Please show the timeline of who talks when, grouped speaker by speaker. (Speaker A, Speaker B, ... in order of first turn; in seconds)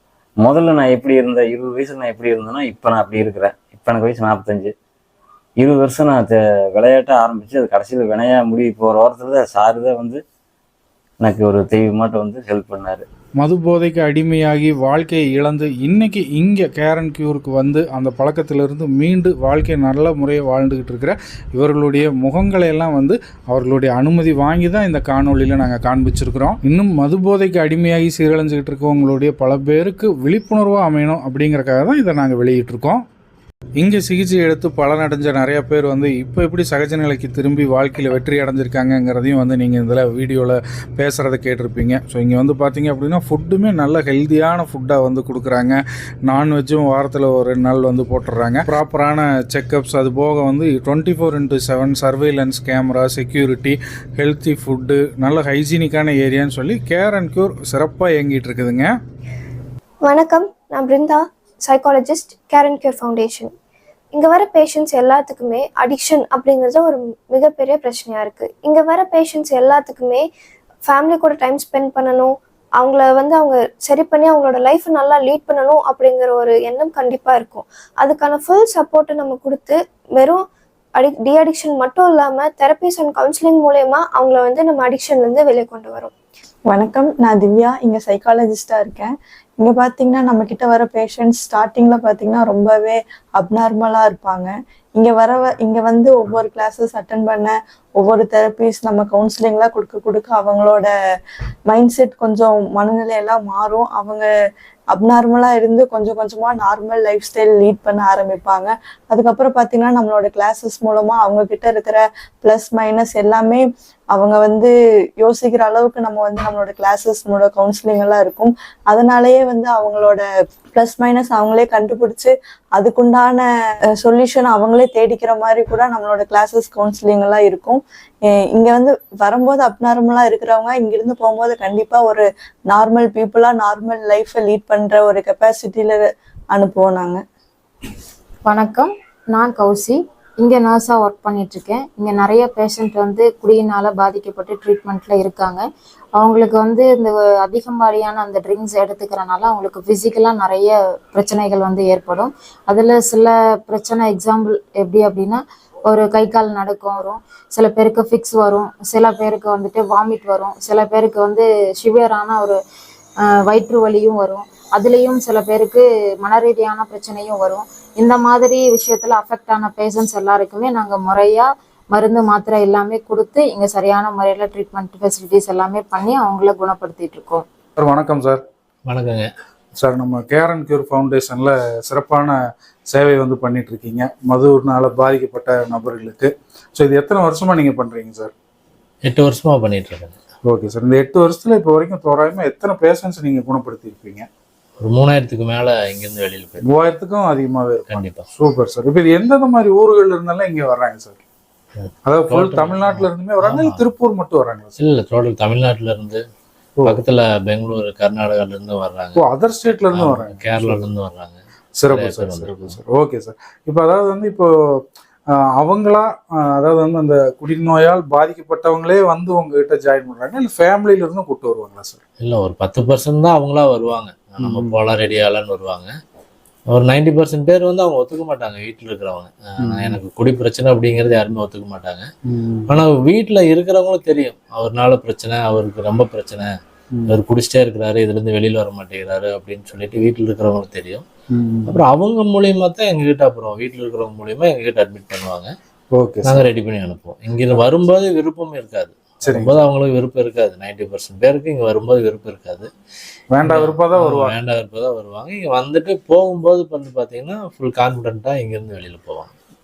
Speaker A: 0.4-4.7, 5.6-10.2, 11.2-13.0
Speaker B: 13.4-33.0, 33.8-58.9, 177.8-178.4, 179.8-182.4, 182.9-188.3, 190.5-194.3, 196.7-201.2, 202.1-204.7, 209.2-210.8, 211.8-214.8, 215.6-222.0, 224.4-224.8, 229.7-230.0, 232.3-232.7, 241.3-241.8, 245.9-246.5, 249.2-249.6, 253.3-254.4
Speaker C: 60.0-63.5, 64.1-70.3, 70.8-80.4, 81.0-86.1
Speaker D: 86.7-100.9, 101.7-104.3, 104.9-123.5, 124.0-137.2
Speaker E: 138.4-145.6, 146.2-162.6, 163.4-177.5
Speaker F: 178.8-179.3, 189.0-190.2, 194.8-196.6, 197.9-198.2, 201.8-203.9, 204.8-206.2, 206.8-209.2, 209.9-212.8, 222.2-225.9, 226.7-232.1, 232.7-236.5, 237.1-241.1, 241.7-245.5, 246.2-252.7, 253.4-259.3